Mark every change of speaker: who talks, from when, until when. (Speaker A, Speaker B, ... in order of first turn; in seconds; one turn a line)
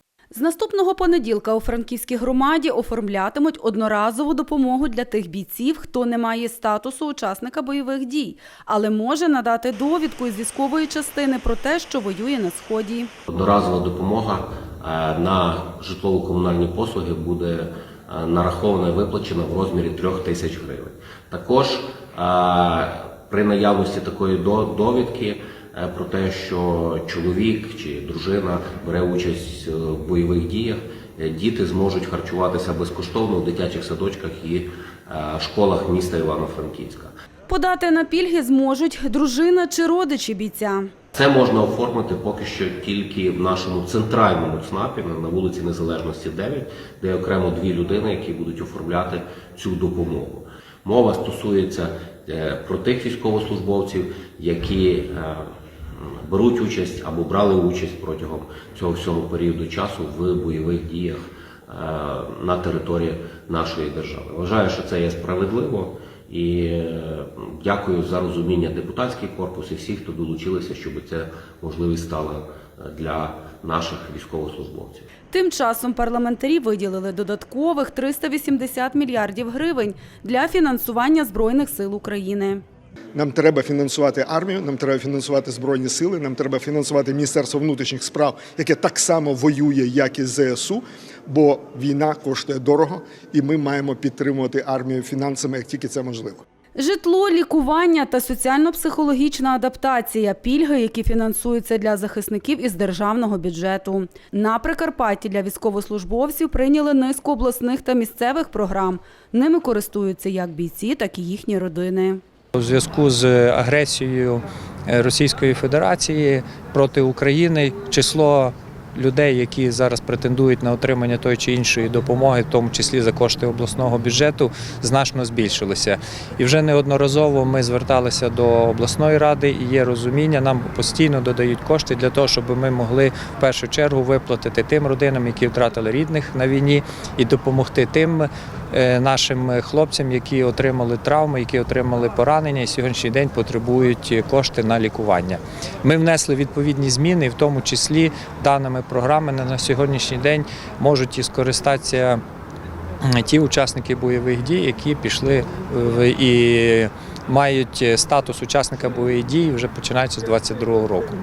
Speaker A: 0.3-13.1
Speaker B: 13.3-37.1
Speaker A: 37.5-40.9
Speaker B: 41.1-75.1
Speaker A: 75.3-82.6
Speaker C: 83.1-96.4
Speaker A: 96.8-112.2
Speaker D: 112.5-152.2
Speaker D: 153.1-161.1